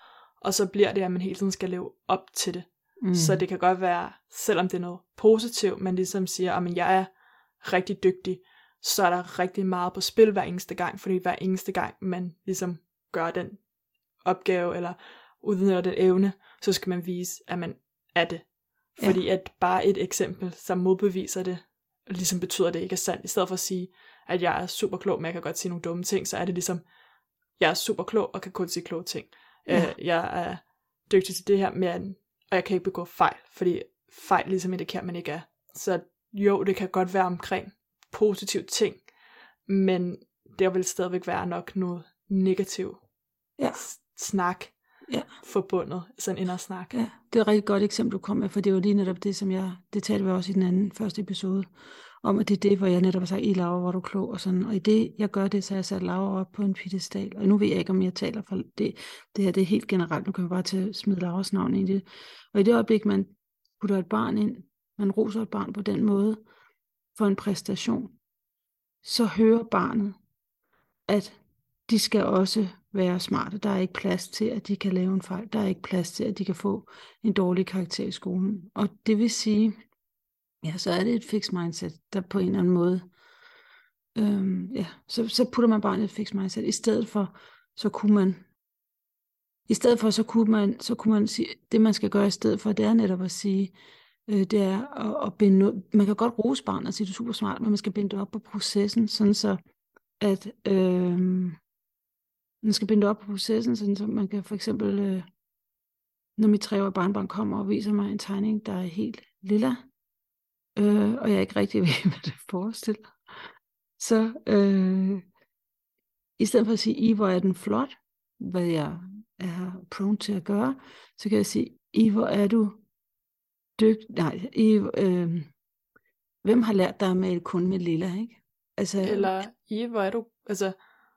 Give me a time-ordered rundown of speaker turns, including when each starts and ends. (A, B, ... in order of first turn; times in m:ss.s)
0:00.4-0:07.1 A
0:03.0-0:03.4 B
0:07.6-0:13.6 A
0:14.2-0:26.8 A
0:27.6-0:39.0 A
0:29.7-0:29.9 B
0:39.7-0:43.0 A
0:43.7-0:44.7 A
0:45.4-0:46.9 A
0:46.9-0:51.7 B
0:52.2-1:06.4 B
1:07.2-1:08.1 B
1:09.0-1:10.2 B
1:11.1-1:19.7 B
1:20.6-1:23.0 B
1:24.1-1:28.5 B
1:29.7-1:33.7 B
1:34.3-1:39.6 B
1:40.2-1:41.6 B
1:42.6-1:45.2 B
1:46.4-1:49.8 B
1:50.8-1:55.2 B
1:56.4-2:02.8 B
2:03.8-2:05.5 B
2:06.4-2:09.3 B
2:09.0-2:10.7 A